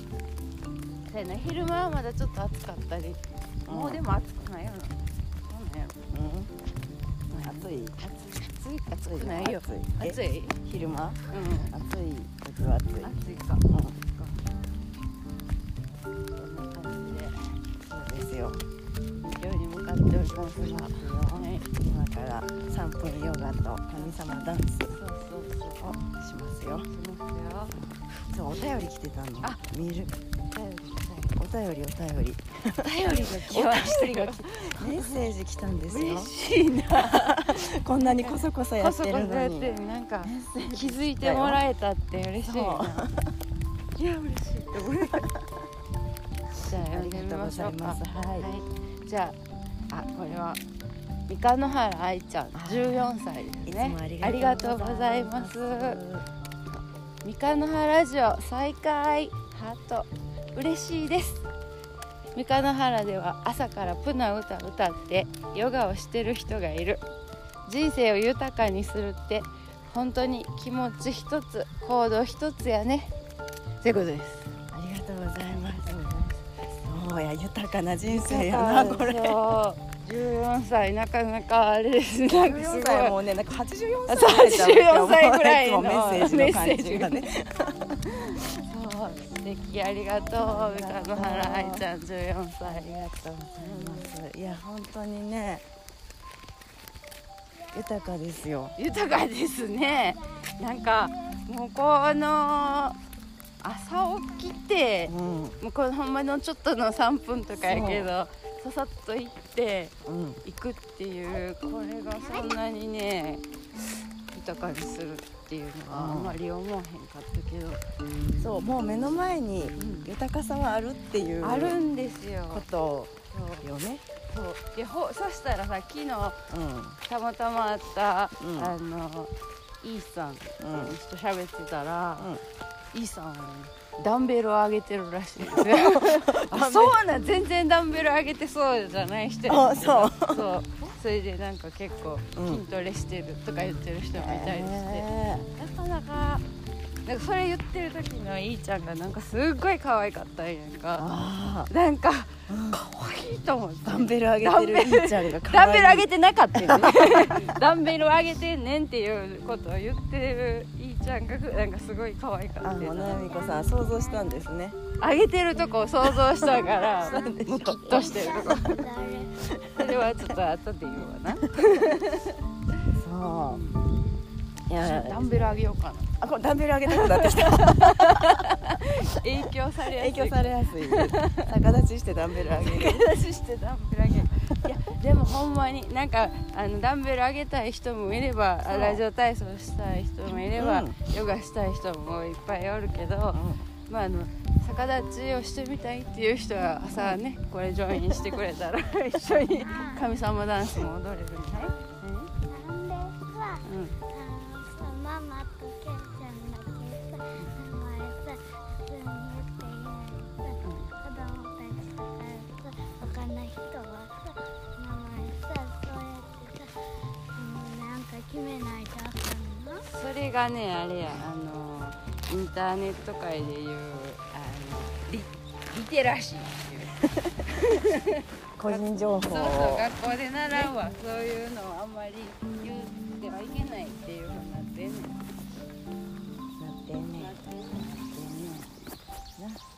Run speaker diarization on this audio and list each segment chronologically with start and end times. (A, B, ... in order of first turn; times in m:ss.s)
0:01.1-0:06.0 A
0:03.7-0:04.0 B
0:06.1-0:06.5 B
0:07.3-0:10.6 A
0:07.3-0:13.1 B
0:11.3-0:11.7 A
0:13.0-0:14.5 A
0:13.7-0:14.0 B
0:16.4-0:17.4 A
0:17.8-0:18.6 B
0:19.1-0:21.7 A
0:20.6-0:25.0 B
0:24.9-0:26.0 A
0:25.8-0:26.9 B
0:26.9-0:27.8 A
0:27.7-0:30.2 B
0:30.5-0:31.3 A
0:31.3-0:41.6 B
0:32.8-0:35.2 A
0:35.9-0:43.1 A
0:42.4-0:43.3 B
0:44.0-0:45.3 A
0:46.6-0:49.4 A
0:46.9-0:48.5 B
0:49.9-0:50.6 A
0:51.3-0:56.0 A
0:52.5-0:56.3 B
0:57.2-1:01.4 A
1:02.3-1:07.0 A
1:07.7-1:13.2 A
1:13.8-1:14.5 A
1:14.7-1:19.5 B
1:18.1-1:23.2 A
1:22.4-1:27.9 B
1:24.1-1:27.2 A
1:28.1-1:32.9 A
1:30.4-1:31.8 B
1:32.6-1:35.6 B
1:33.6-1:34.1 A
1:37.7-1:38.8 B
1:38.8-1:43.0 A
1:43.6-1:53.5 A
1:45.1-1:45.6 B
1:47.6-1:48.1 B
1:50.0-1:50.4 B
1:54.3-1:57.8 A
1:55.9-1:56.4 B
1:58.4-2:01.8 B
1:59.8-2:00.1 A
2:01.4-2:02.7 A
2:02.5-2:04.0 B
2:03.3-2:03.7 A
2:04.3-2:06.4 A
2:06.5-2:07.0 B
2:07.0-2:12.3 A
2:08.4-2:08.7 B
2:10.6-2:11.0 B
2:12.2-2:12.4 B
2:12.9-2:26.4 A
2:15.4-2:17.0 B
2:19.5-2:20.6 B
2:22.3-2:22.6 B
2:24.1-2:25.5 B
2:27.1-2:31.1 A
2:31.0-2:31.7 B
2:31.7-2:43.4 A
2:32.5-2:32.8 B
2:33.8-2:37.4 B
2:42.6-2:44.8 B
2:43.3-2:44.4 C
2:45.0-2:48.9 A
2:46.2-2:48.7 B
2:46.9-2:47.3 C
2:47.9-2:49.3 C
2:49.4-2:50.3 B
2:49.8-2:52.4 A
2:52.9-2:53.6 B
2:53.4-2:53.9 A
2:54.7-2:55.6 B
2:54.8-2:56.1 A
2:56.2-2:58.4 B
2:56.9-3:01.4 A
2:59.9-3:03.1 B
3:02.6-3:22.3 A
3:08.7-3:09.0 B
3:10.3-3:11.0 B
3:13.3-3:13.6 B
3:18.0-3:18.3 B
3:19.6-3:20.0 C
3:22.5-3:36.7 C
3:23.6-3:24.0 A
3:30.6-3:30.9 A
3:37.4-3:39.9 C
3:39.9-3:55.2 A
3:47.0-3:47.4 B
3:48.6-3:49.9 B
3:56.5-3:57.3 B
3:57.2-3:58.7 A